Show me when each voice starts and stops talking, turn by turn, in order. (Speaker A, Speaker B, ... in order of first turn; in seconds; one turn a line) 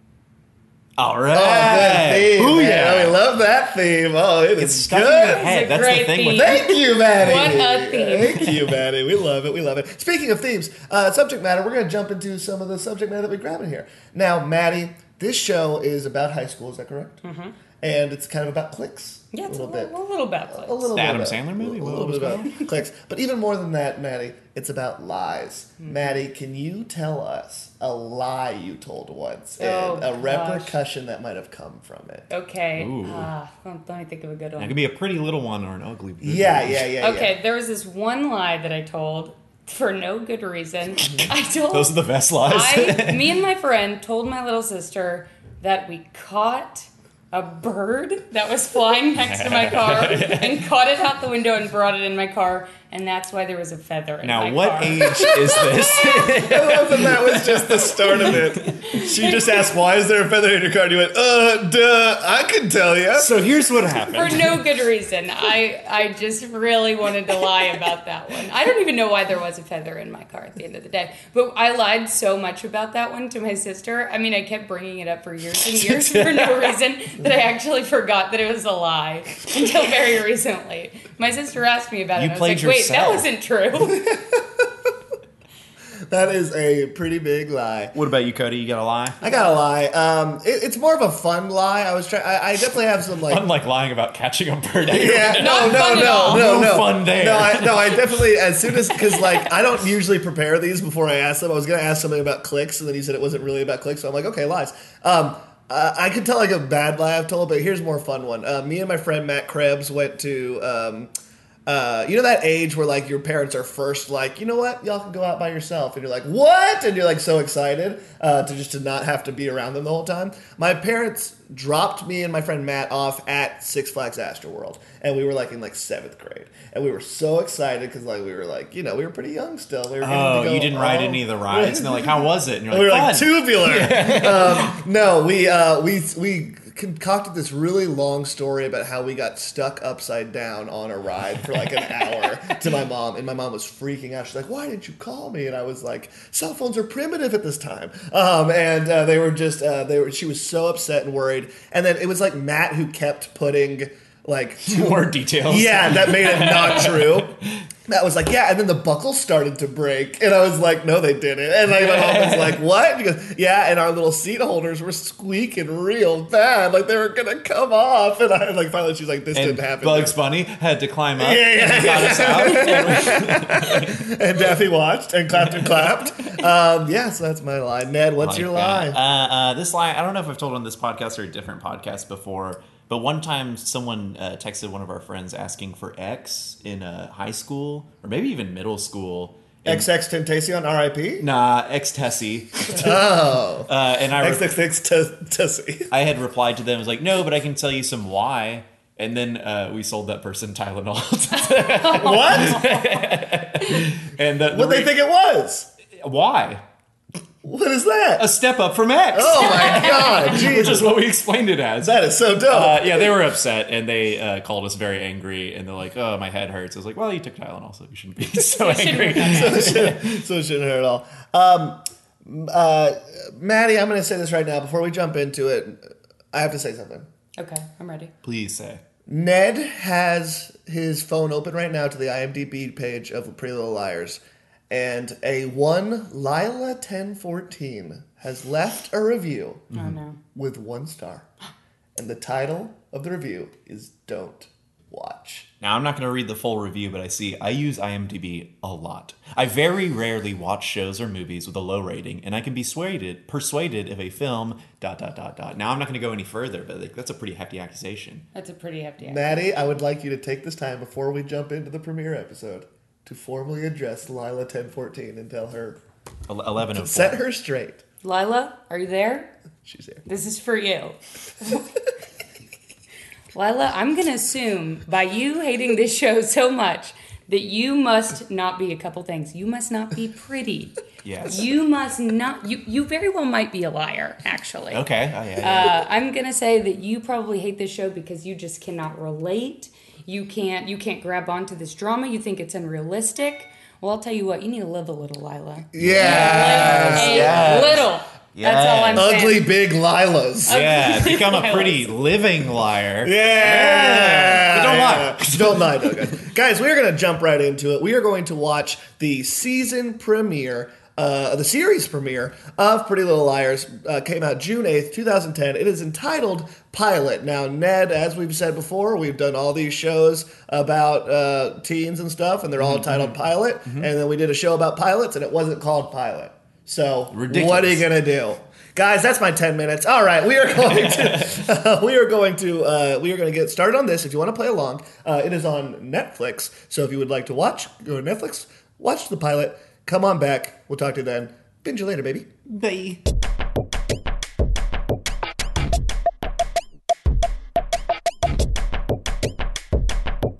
Speaker A: 1.0-3.2
Speaker B: 1.3-5.5
Speaker A: 4.6-6.7
Speaker C: 5.2-8.5
Speaker B: 6.3-17.2
Speaker C: 17.2-17.6
Speaker B: 17.8-20.0
Speaker C: 19.3-20.9
Speaker B: 20.5-32.3
Speaker A: 20.9-22.6
Speaker C: 25.8-26.2
Speaker C: 29.6-30.8
Speaker C: 32.3-34.8
Speaker A: 32.8-33.3
Speaker A: 34.6-36.9
Speaker B: 36.2-37.4
Speaker C: 37.0-56.4
Speaker A: 41.0-43.4
Speaker A: 49.2-50.7
Speaker A: 54.2-58.8
Speaker B: 55.2-63.4
Speaker C: 58.2-59.8
Speaker A: 63.1-64.6
Speaker C: 64.1-84.0
Speaker A: 75.7-76.8
Speaker A: 82.2-83.3
Speaker B: 83.8-84.9
Speaker B: 86.1-87.9
Speaker A: 87.9-89.2
Speaker B: 89.2-93.4
Speaker C: 89.3-89.5
Speaker A: 93.3-98.2
Speaker B: 94.8-111.1
Speaker C: 95.3-96.6
Speaker B: 111.7-157.4
Speaker A: 130.0-134.8
Speaker A: 154.7-157.5
Speaker B: 157.9-170.2
Speaker A: 161.7-162.6
Speaker A: 169.3-174.1
Speaker B: 171.2-179.0
Speaker A: 175.4-176.4
Speaker A: 178.2-189.9
Speaker B: 189.7-191.3
Speaker A: 191.2-194.5
Speaker B: 192.7-195.9
Speaker A: 195.9-204.9
Speaker C: 201.6-203.1
Speaker B: 202.0-202.7
Speaker B: 204.5-205.7
Speaker A: 206.0-206.6
Speaker B: 207.4-208.2
Speaker A: 208.2-220.2
Speaker B: 209.1-210.9
Speaker C: 209.2-210.4
Speaker B: 211.8-213.1
Speaker C: 218.5-219.7
Speaker B: 219.2-227.1
Speaker C: 227.4-228.1
Speaker A: 228.2-228.8
Speaker B: 229.1-239.7
Speaker C: 239.7-240.2
Speaker B: 240.3-241.3
Speaker B: 242.0-245.5
Speaker A: 245.6-258.2
Speaker C: 258.3-259.5
Speaker B: 259.0-265.8
Speaker A: 266.3-267.2
Speaker B: 266.7-267.8
Speaker C: 268.0-269.3
Speaker B: 269.6-270.1
Speaker C: 270.1-271.6
Speaker C: 273.3-284.9
Speaker A: 281.0-281.5
Speaker A: 284.7-285.8
Speaker C: 285.4-299.5
Speaker B: 295.7-297.7
Speaker A: 295.8-299.1
Speaker B: 298.9-300.6
Speaker C: 300.5-301.9
Speaker A: 300.5-306.2
Speaker B: 303.0-342.3
Speaker A: 322.6-323.9
Speaker A: 327.1-327.9
Speaker A: 330.7-331.4
Speaker A: 342.5-343.0